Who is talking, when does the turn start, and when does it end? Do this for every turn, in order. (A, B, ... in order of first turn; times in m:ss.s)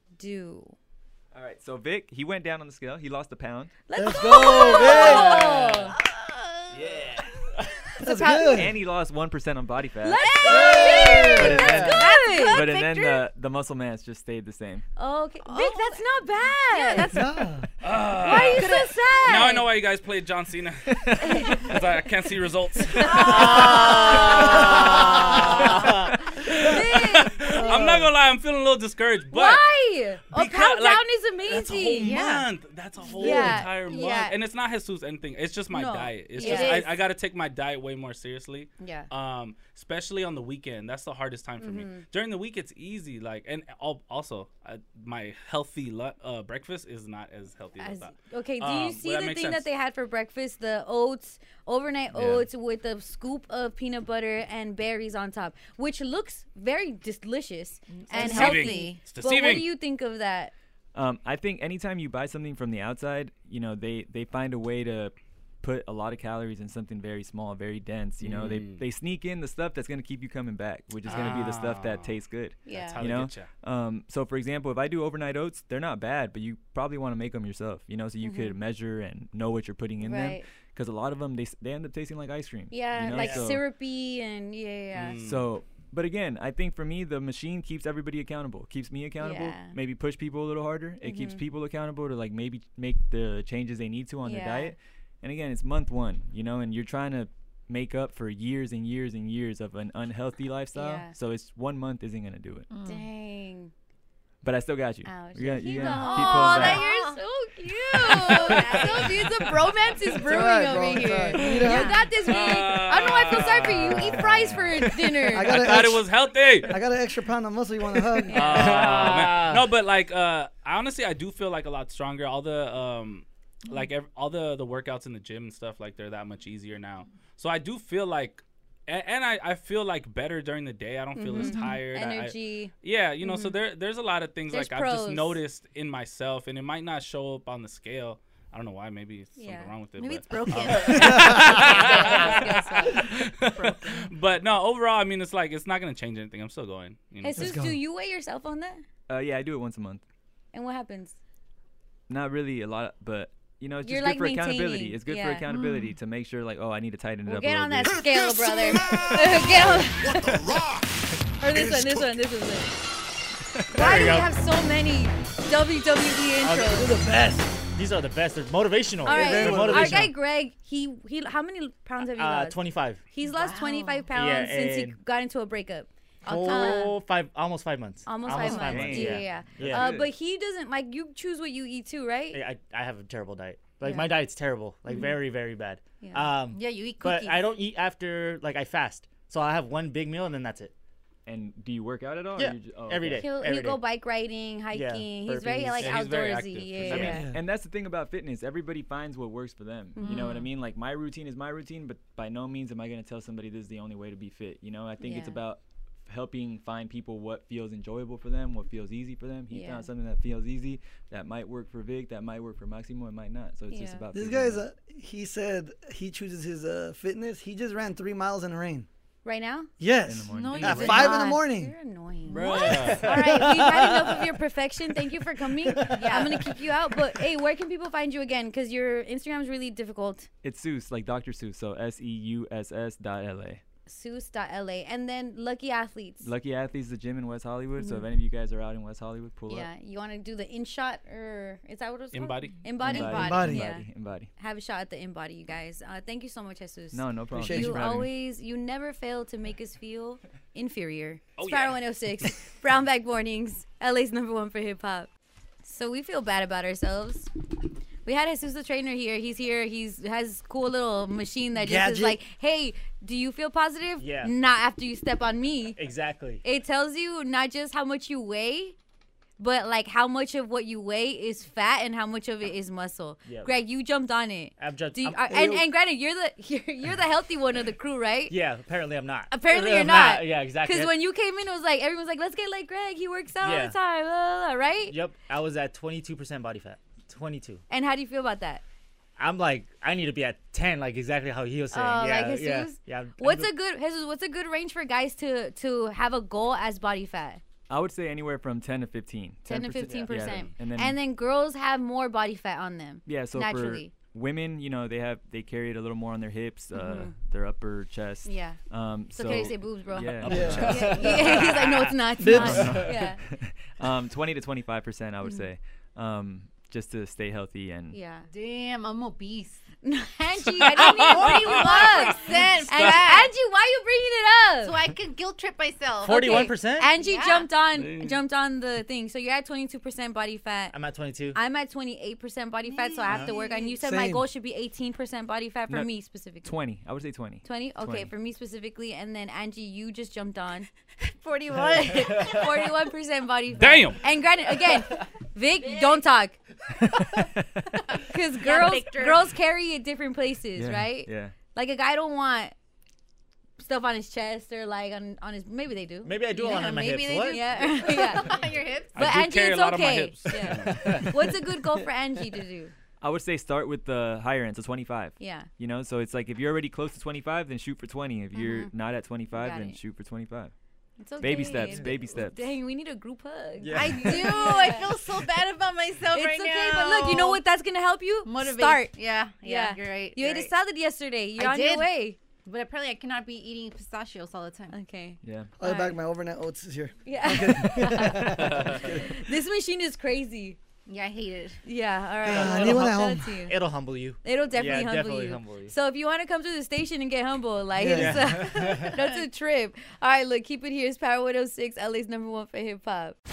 0:00.2-0:00.7 A
0:01.3-0:03.8 B
0:03.9-0:06.0 A
0:03.9-0:05.7 C
0:04.3-0:06.8 D
0:06.7-0:07.3 B
0:08.0-0:08.8 C
0:08.1-0:08.6 A
0:08.2-0:10.5 B
0:10.0-0:12.8 A
0:10.2-0:13.3 D
0:10.4-0:12.0 C
0:11.3-0:14.8 B
0:15.0-0:17.1 A
0:15.4-0:16.1 D
0:16.7-0:17.4 D
0:17.0-0:17.7 C
0:17.8-0:18.7 E
0:18.2-0:19.7 A
0:18.2-0:19.5 D
0:19.2-0:20.9 E
0:20.9-0:21.8 B
0:21.2-0:21.7 A
0:21.5-0:25.8 E
0:23.0-0:25.1 D
0:23.2-0:24.8 F
0:26.4-0:26.8 E
0:26.6-0:27.6 A
0:27.4-0:29.6 E
0:27.5-0:28.1 C
0:29.3-0:32.2 A
0:30.3-0:31.0 E
0:31.5-0:32.0 B
0:32.0-0:32.4 D
0:32.0-0:49.7 E
0:33.2-0:34.4 A
0:35.7-0:36.9 A
0:36.4-0:36.8 D
0:38.8-0:39.1 A
0:41.6-0:42.0 A
0:47.8-1:00.5 A
0:52.1-0:52.4 E
0:58.1-0:59.0 D
0:58.2-0:59.6 E
1:00.9-1:23.6 B
1:08.2-1:08.8 E
1:11.0-1:13.5 E
1:12.6-1:13.1 A
1:18.2-1:18.6 A
1:20.0-1:20.4 A
1:22.7-1:25.2 A
1:23.1-1:23.4 F
1:24.9-1:25.5 E
1:25.1-1:42.7 B
1:29.2-1:29.8 A
1:31.0-1:31.4 A
1:34.2-1:34.7 A
1:40.7-1:41.1 A
1:42.7-1:43.1 D
1:42.8-1:43.7 A
1:44.4-1:46.8 B
1:45.0-1:55.6 A
1:45.7-1:47.2 D
1:47.9-1:49.8 D
1:50.2-1:52.0 C
1:52.2-1:56.8 E
1:55.3-1:56.1 C
1:56.6-1:58.8 C
1:58.3-1:59.0 A
1:58.3-2:27.6 E
1:58.4-1:59.6 F
2:11.2-2:13.6 A
2:11.4-2:11.8 D
2:14.5-2:15.4 A
2:19.4-2:19.7 A
2:20.0-2:24.1 D
2:20.8-2:23.0 A
2:27.2-2:28.8 A
2:27.3-2:27.8 C
2:29.1-2:30.0 B
2:30.5-2:31.2 A
2:32.1-2:38.1 B
2:33.8-2:35.4 A
2:35.5-2:35.8 D
2:37.3-2:40.3 A
2:41.4-2:42.7 A
2:43.6-2:44.2 B
2:43.7-2:44.3 F
2:43.7-2:46.9 A
2:46.4-2:46.8 F
2:46.6-2:47.6 C
2:47.7-2:50.1 F
2:49.0-2:57.0 A
2:49.0-2:50.1 C
2:52.1-2:53.0 F
2:53.2-2:54.1 D
2:54.1-2:55.0 F
2:56.2-2:59.9 F
2:56.3-2:56.9 D
2:58.1-3:02.4 A
2:58.4-2:59.0 D
2:58.6-3:00.1 B
3:02.3-3:10.7 F
3:03.8-3:04.1 A
3:06.0-3:06.3 A
3:06.5-3:07.5 D
3:11.3-3:13.3 B
3:12.4-3:13.8 F
3:13.2-3:17.3 A
3:14.7-3:16.0 F
3:15.8-3:17.2 E
3:16.8-3:17.3 F
3:16.9-3:34.6 B
3:17.1-3:17.4 C
3:20.0-3:20.4 A
3:20.0-3:20.4 D
3:25.0-3:25.4 A
3:29.5-3:29.9 A
3:33.7-3:34.0 A
3:34.1-3:38.9 C
3:39.2-3:39.7 A
3:39.8-3:41.7 C
3:40.0-3:41.0 B
3:40.3-3:41.3 D
3:40.8-3:50.3 A
3:42.3-3:43.9 F
3:42.4-3:43.0 E
3:43.4-3:43.8 C
3:45.9-3:46.5 D
3:50.4-3:53.6 B
3:53.9-3:56.3 A
3:56.2-3:59.7 B
3:57.8-3:58.1 A
3:59.5-4:15.1 A
4:02.1-4:02.6 E
4:02.8-4:04.3 B
4:02.8-4:03.7 C
4:06.9-4:08.1 B
4:07.3-4:07.9 C
4:11.4-4:12.4 E
4:15.6-4:17.3 A
4:18.0-4:25.8 A
4:21.6-4:22.2 C
4:24.0-4:24.3 F
4:25.8-4:26.4 F
4:26.4-4:28.7 A
4:29.4-4:38.4 A
4:33.3-4:33.5 F
4:34.6-4:35.3 F
4:35.3-4:35.6 C
4:38.3-4:40.9 F
4:39.3-4:45.0 A
4:43.4-4:43.8 F
4:44.9-4:47.6 F
4:47.7-4:48.6 A
4:49.2-4:53.5 F
4:51.7-4:57.4 A
4:57.7-5:01.0 B
4:59.4-5:03.9 A
4:59.8-5:00.4 F
5:03.1-5:18.0 B
5:06.7-5:07.1 A
5:08.3-5:08.6 A
5:09.1-5:13.2 A
5:10.2-5:11.2 C
5:12.2-5:13.0 C
5:17.9-5:18.3 A
5:18.3-5:19.6 D
5:19.8-5:24.8 A
5:20.5-5:23.3 D
5:20.6-5:23.0 E
5:24.6-5:27.5 D
5:26.0-5:26.9 F
5:26.0-5:30.7 A
5:27.8-5:28.2 E
5:30.7-5:31.4 F
5:31.3-5:36.6 A
5:32.6-5:33.7 D
5:33.8-5:34.2 C
5:36.4-5:38.1 B
5:37.4-5:40.7 A
5:41.1-5:42.7 D
5:41.6-5:46.4 A
5:43.6-5:44.0 E
5:45.6-5:46.0 D
5:47.8-5:49.3 D
5:48.0-5:52.5 A
5:50.6-5:51.3 B
5:53.6-5:58.4 A
5:56.0-5:57.7 F
5:57.6-5:59.0 D
5:58.9-6:01.0 E
5:58.9-6:02.7 A
6:03.0-6:10.5 B
6:05.2-6:05.5 A
6:08.4-6:08.7 A
6:09.4-6:09.8 A
6:11.0-6:14.9 A
6:11.2-6:12.4 B
6:13.6-6:14.7 F
6:13.7-6:17.4 D
6:16.1-6:22.2 A
6:18.2-6:20.5 D
6:21.4-6:21.9 D
6:22.4-6:24.8 D
6:24.7-6:26.0 A
6:25.2-6:25.5 B
6:25.6-6:29.0 C
6:27.0-6:30.6 A
6:28.4-6:28.8 E
6:30.9-6:31.6 D
6:31.6-6:33.6 A
6:32.2-6:33.3 C
6:32.2-6:35.7 F
6:34.2-6:43.2 A
6:37.8-6:38.5 C
6:37.9-6:39.0 F